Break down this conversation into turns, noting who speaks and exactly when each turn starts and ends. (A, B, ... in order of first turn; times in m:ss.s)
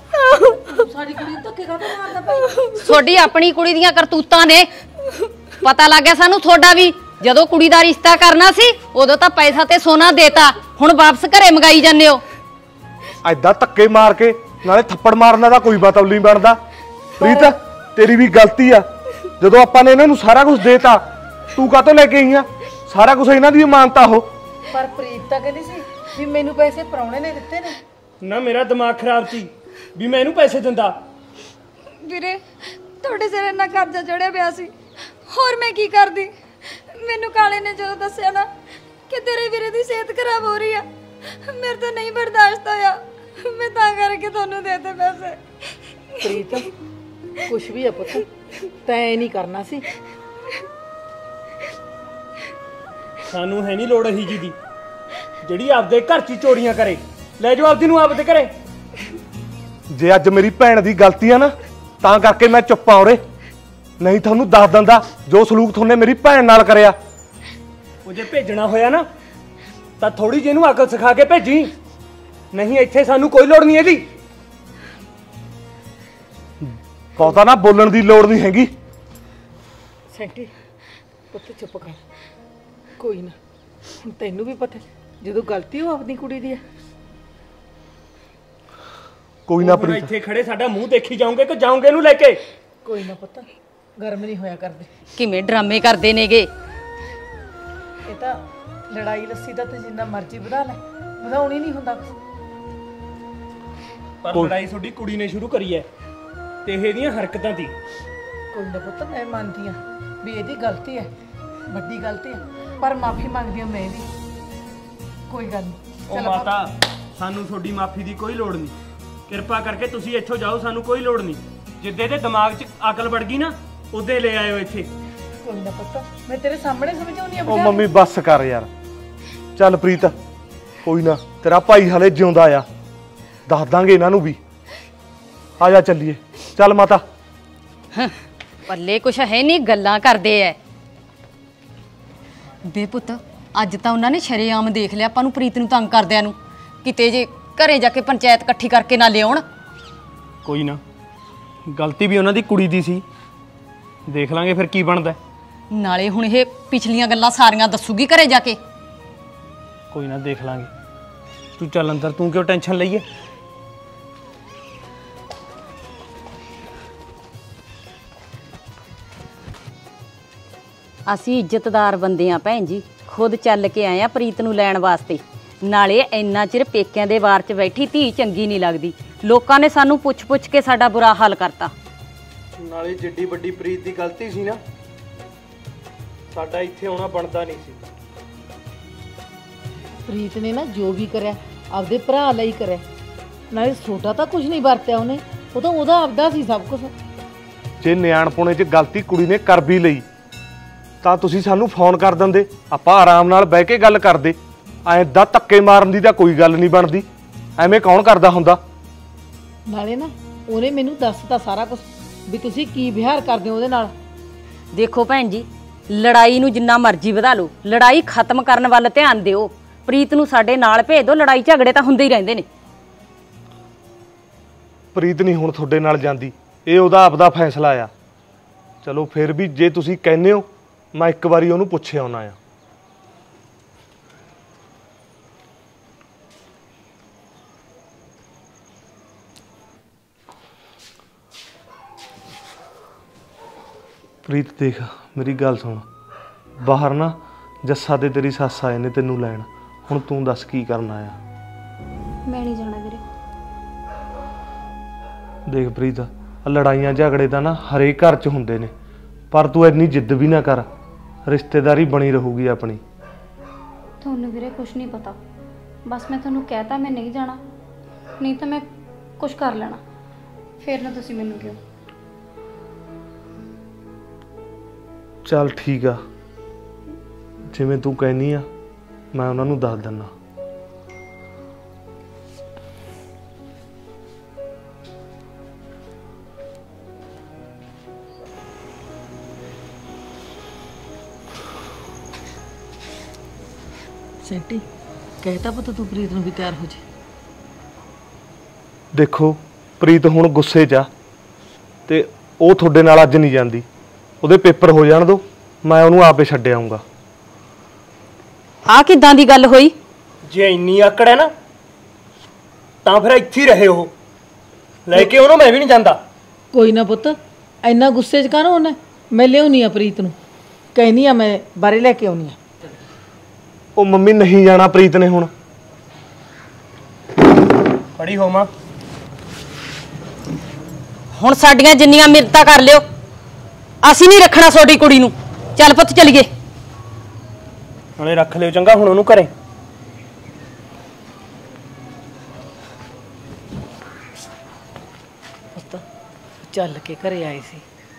0:00.4-0:02.7 A
0:02.7-0:04.7 B
0:05.6-0:12.2 B
0:13.2-0:16.6 C
0:17.2-0:18.9 C
0:19.4-0:21.0 C
0:21.5-0:24.3 C
0:24.7-0:27.8 A
0:28.2-0:31.0 D
0:32.0-0:32.4 E
0:33.0-0:34.7 E
0:35.3-0:38.5 E
0:39.1-0:46.4 E
0:46.2-0:46.7 A
0:47.4-0:48.3 A
0:48.8-0:49.8 A
0:53.3-0:54.6 D
0:55.4-0:58.5 D
0:59.9-1:03.2 C
1:04.0-1:07.0 C
1:08.0-1:09.1 D
1:10.0-1:11.7 D
1:12.5-1:14.1 D
1:16.6-1:18.7 C
1:20.1-1:20.5 A
1:21.3-1:22.0 A
1:23.0-1:23.4 A
1:24.0-1:26.6 A
1:29.5-1:30.1 C
1:29.6-1:32.4 D
1:32.8-1:33.4 A
1:34.0-1:34.9 A
1:35.1-1:36.5 B
1:38.0-1:42.1 A
1:44.2-1:45.9 D
1:46.6-1:47.7 D
1:48.5-1:51.1 A
1:51.7-1:54.1 A
1:55.3-1:56.5 A
1:56.1-1:58.7 D
1:59.3-2:04.9 D
2:05.4-2:07.9 A
2:07.4-2:08.7 C
2:09.6-2:10.1 C
2:10.8-2:12.6 C
2:13.5-2:14.4 C
2:15.6-2:17.0 C
2:18.7-2:20.6 B
2:22.7-2:29.4 B
2:30.4-2:30.8 D
2:31.7-2:33.0 D
2:34.1-2:35.2 D
2:35.7-2:38.6 B
2:39.9-2:40.7 D
2:41.6-2:43.0 D
2:51.0-3:01.7 B
3:02.6-3:04.6 D
3:06.3-3:07.8 D
3:10.1-3:12.8 A
3:13.5-3:16.9 A
3:17.8-3:20.0 C
3:21.0-3:27.0 C
3:27.6-3:28.6 C
3:29.7-3:33.9 A
3:34.7-3:42.4 B
3:44.9-3:47.9 C
3:48.8-3:52.4 C
4:04.2-4:05.8 C
4:06.6-4:11.2 C
4:12.2-4:13.0 E
4:15.5-4:18.7 C
4:19.3-4:20.6 C
4:21.3-4:22.8 C
4:24.0-4:25.2 E
4:25.8-4:27.4 E
4:28.2-4:28.6 E
4:29.2-4:29.8 E
4:30.6-4:31.6 E
4:35.2-4:36.0 C
4:37.5-4:38.4 C
4:39.1-4:40.1 C
4:54.2-4:54.6 A
4:55.2-4:56.8 A
4:58.9-5:00.9 C
5:01.9-5:03.6 C
5:04.2-5:06.8 C
5:08.6-5:09.7 B
5:10.2-5:11.3 D
5:12.8-5:13.9 D
5:14.9-5:16.0 D
5:16.5-5:20.1 A
5:20.7-5:22.4 A
5:23.8-5:25.3 C
5:28.0-5:28.5 D
5:31.1-5:32.8 B
5:33.8-5:36.3 B
5:38.0-5:39.3 D
5:45.5-5:45.8 A
5:46.5-5:47.6 A